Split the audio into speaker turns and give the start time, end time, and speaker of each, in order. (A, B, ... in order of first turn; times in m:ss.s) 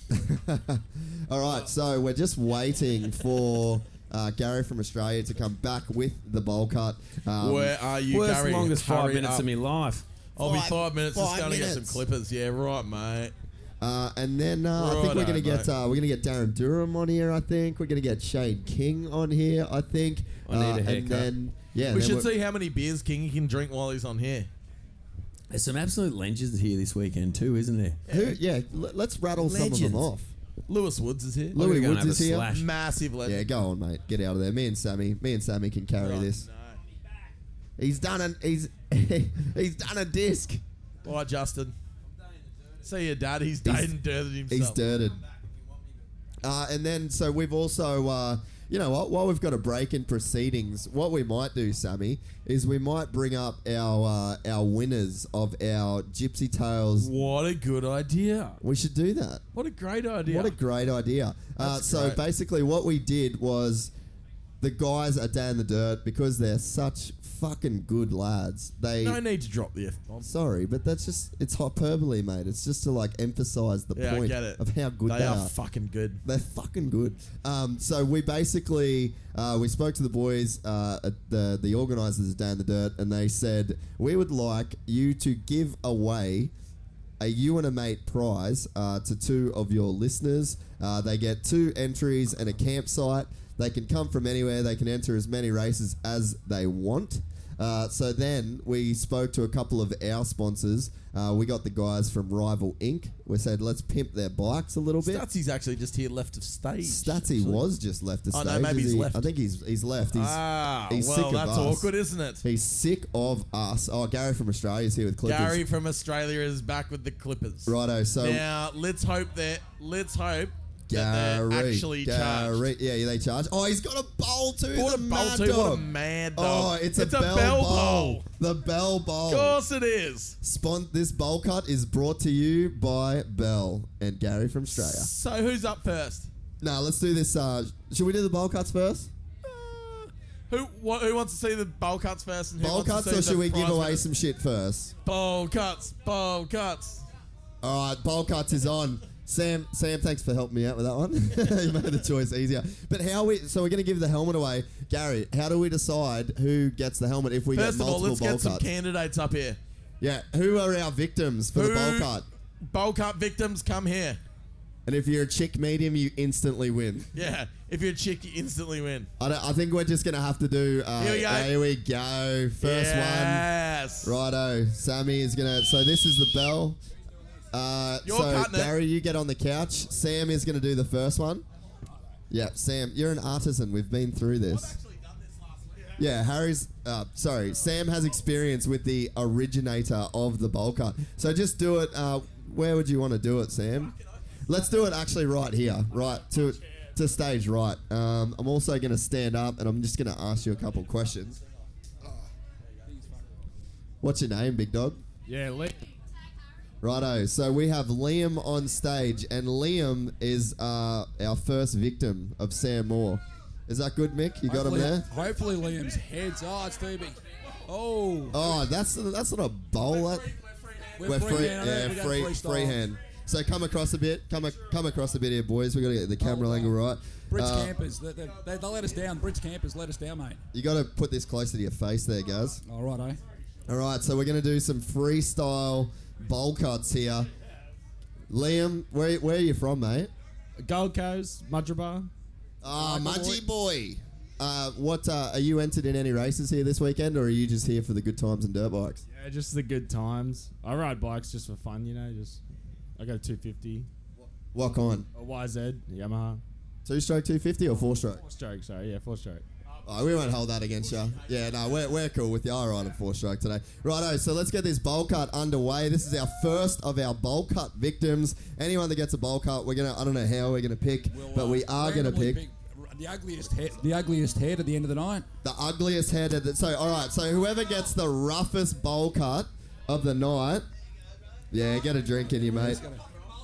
0:00.1-0:07.8 A
0:07.4-0:09.5 B
0:08.1-0:10.0 C
0:10.4-0:13.3 B
0:10.4-0:12.0 A
0:13.8-0:22.3 A
0:14.8-0:15.7 B
0:20.4-0:21.3 C
0:21.9-0:24.5 B
0:25.5-0:28.0 C
0:28.1-0:28.4 B
0:28.1-0:30.3 A
0:29.4-0:30.0 C
0:30.7-0:31.6 B
0:31.5-0:32.5 A
0:31.5-0:32.6 C
0:32.5-0:33.4 B
0:33.2-0:36.4 A
0:36.0-0:36.8 B
0:37.8-0:40.6 A
0:41.0-0:41.7 B
0:42.8-0:44.8 B
0:43.6-0:43.9 A
0:44.5-0:45.2 A
0:46.4-0:57.1 A
0:57.0-0:58.6 B
0:58.6-0:59.4 A
0:59.5-1:00.6 B
1:00.2-1:03.9 A
1:01.6-1:02.2 B
1:04.6-1:09.2 A
1:09.0-1:10.2 B
1:10.2-1:15.5 A
1:13.9-1:16.2 B
1:16.2-1:26.5 A
1:27.2-1:45.2 A
1:45.0-1:47.6 B
1:46.8-1:51.9 A
1:48.3-1:49.2 B
1:50.1-1:52.4 B
1:52.4-1:55.6 A
1:55.2-2:02.6 B
1:57.6-1:58.4 A
2:00.9-2:09.6 A
2:04.7-2:08.2 B
2:09.3-2:10.4 B
2:10.4-2:15.1 A
2:14.7-2:16.3 B
2:16.6-2:19.1 A
2:19.6-2:24.0 B
2:22.6-2:24.9 A
2:25.0-2:27.0 B
2:27.6-2:38.7 A
2:37.5-2:39.6 B
2:40.0-2:42.2 A
2:41.5-2:42.1 B
2:42.7-2:44.2 B
2:44.8-2:47.1 A
2:47.1-2:49.1 B
2:49.2-2:53.5 A
2:51.0-2:51.6 B
2:52.6-2:54.1 B
2:54.0-2:56.8 A
2:57.5-3:01.4 A
2:58.0-2:58.7 B
3:02.3-3:04.8 A
3:04.5-3:05.9 B
3:06.0-3:13.9 A
3:14.5-3:21.4 A
3:22.9-3:23.3 D
3:24.0-3:25.0 A
3:25.3-3:25.9 E
3:26.8-3:35.1 A
3:34.4-3:38.4 D
3:38.3-3:40.3 A
3:41.0-3:42.8 D
3:41.0-3:47.7 A
3:46.2-3:46.8 D
3:47.3-3:50.4 D
3:50.5-3:52.6 A
3:52.6-3:53.2 D
3:53.7-3:57.3 A
3:58.3-4:00.1 A
4:00.6-4:02.1 E
4:02.6-4:09.0 A
4:02.7-4:03.4 E
4:09.1-4:12.4 E
4:13.0-4:13.9 E
4:14.2-4:15.1 A
4:15.1-4:16.4 E
4:16.8-4:18.2 A
4:18.2-4:19.4 E
4:19.8-4:32.4 A
4:31.1-4:35.2 D
4:35.4-4:40.7 A
4:41.5-4:42.8 A
4:42.4-4:43.0 D